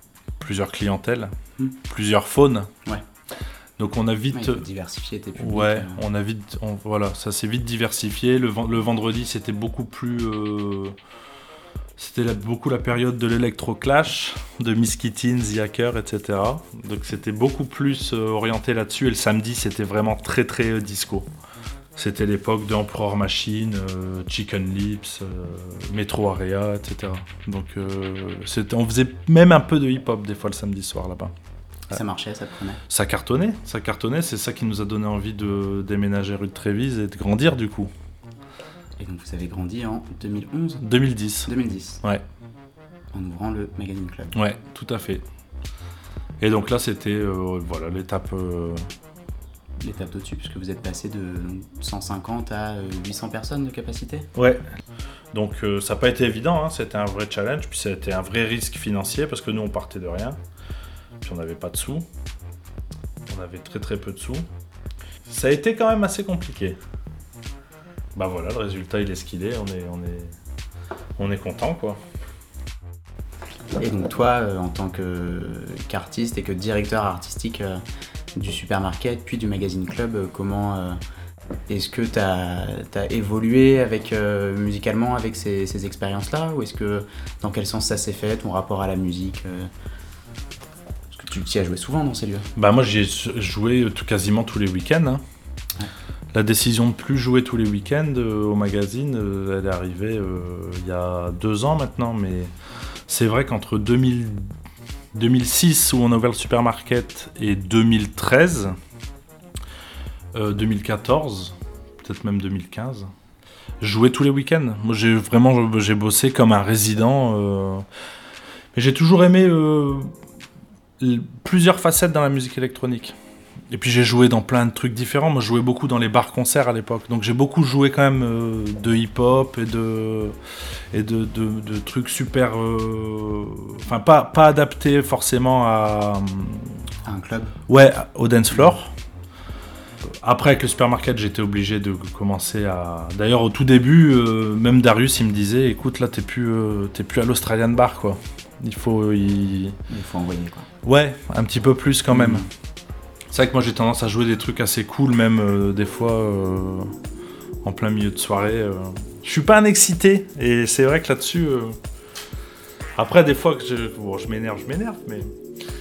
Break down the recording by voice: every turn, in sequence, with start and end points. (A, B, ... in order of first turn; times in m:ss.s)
0:00.4-0:01.3 A
0:01.9-0:02.7 A
0:03.8-0:04.6 A
0:04.3-0:06.0 B
0:05.4-0:11.0 A
0:12.0-0:21.3 A
0:22.0-0:31.3 A
0:31.9-0:32.8 B
0:32.9-0:37.9 A
0:39.0-0:40.8 B
0:40.8-0:41.5 A
0:41.4-0:42.0 B
0:43.1-0:44.3 B
0:44.3-0:45.2 A
0:46.4-0:48.9 A
0:49.8-0:54.3 B
0:54.4-0:54.6 A
0:55.3-1:00.4 A
1:01.2-1:02.1 A
1:03.3-1:04.5 A
1:05.3-1:06.8 A
1:08.2-1:10.4 A
1:11.2-1:12.0 A
1:13.8-1:17.8 B
1:18.4-1:21.0 B
1:21.7-1:29.7 B
1:31.1-1:32.5 B
1:32.6-1:35.2 A
1:36.3-1:42.5 A
1:43.1-1:44.5 A
1:45.1-1:48.8 A
1:50.3-1:53.1 A
1:53.8-1:57.8 A
1:58.8-2:00.1 A
2:01.0-2:03.2 A
2:03.7-2:10.4 A
2:10.9-2:16.7 A
2:17.1-2:17.6 B
2:17.7-2:18.9 A
2:20.0-2:29.8 A
2:29.9-2:30.7 B
2:30.8-2:32.5 A
2:32.1-2:32.5 B
2:33.3-2:36.9 A
2:37.6-2:41.8 A
2:43.0-2:45.3 A